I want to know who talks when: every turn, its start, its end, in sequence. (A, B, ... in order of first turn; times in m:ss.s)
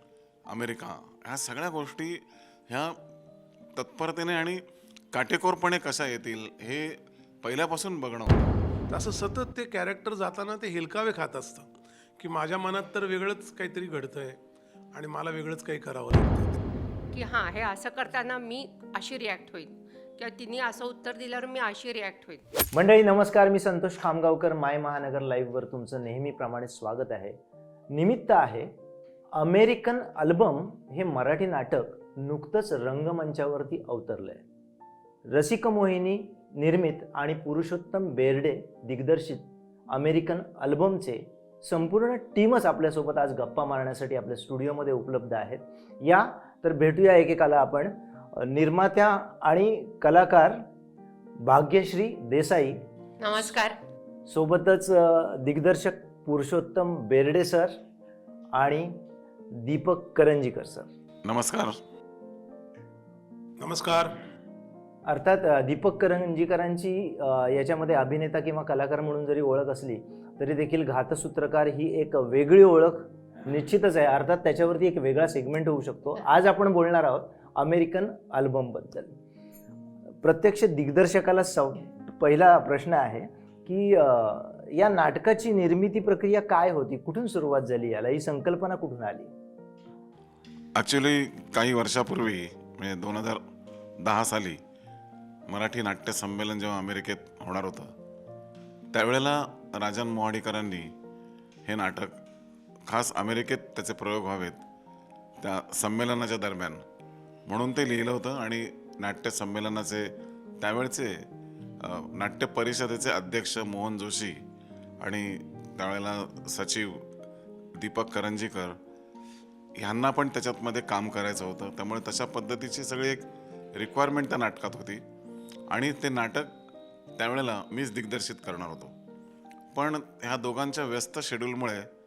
0:00.5-0:03.0 A
0:03.8-0:04.6 A
0:05.1-0:08.4 A
0:08.9-0:11.7 B
0:12.2-0:14.4 B
0:14.9-0:16.6 B
0:17.1-0:22.4 C
0:22.7-0:27.4 D
0:27.9-0:28.7 D
0:29.4-0:34.4 D
0:35.3-0:50.6 D
0:51.4-0:52.8 D
0:53.2-0:53.8 C
0:54.3-0:57.7 D
0:58.5-0:58.9 D
0:59.6-1:00.9 D
1:01.2-1:01.8 A
1:03.6-1:04.2 B
1:05.1-1:19.2 D
1:20.2-1:29.3 D
1:30.8-1:33.4 A
1:34.0-1:34.6 A
1:35.5-1:37.9 A
1:38.9-1:40.9 A
1:41.7-1:42.2 A
1:42.9-1:44.6 A
1:45.4-1:46.8 A
1:47.5-1:51.1 A
1:51.8-1:54.4 A
1:55.0-1:57.0 A
1:57.8-1:58.8 A
1:59.8-2:05.0 A
2:05.7-2:06.5 A
2:07.2-2:08.9 A
2:09.7-2:11.9 A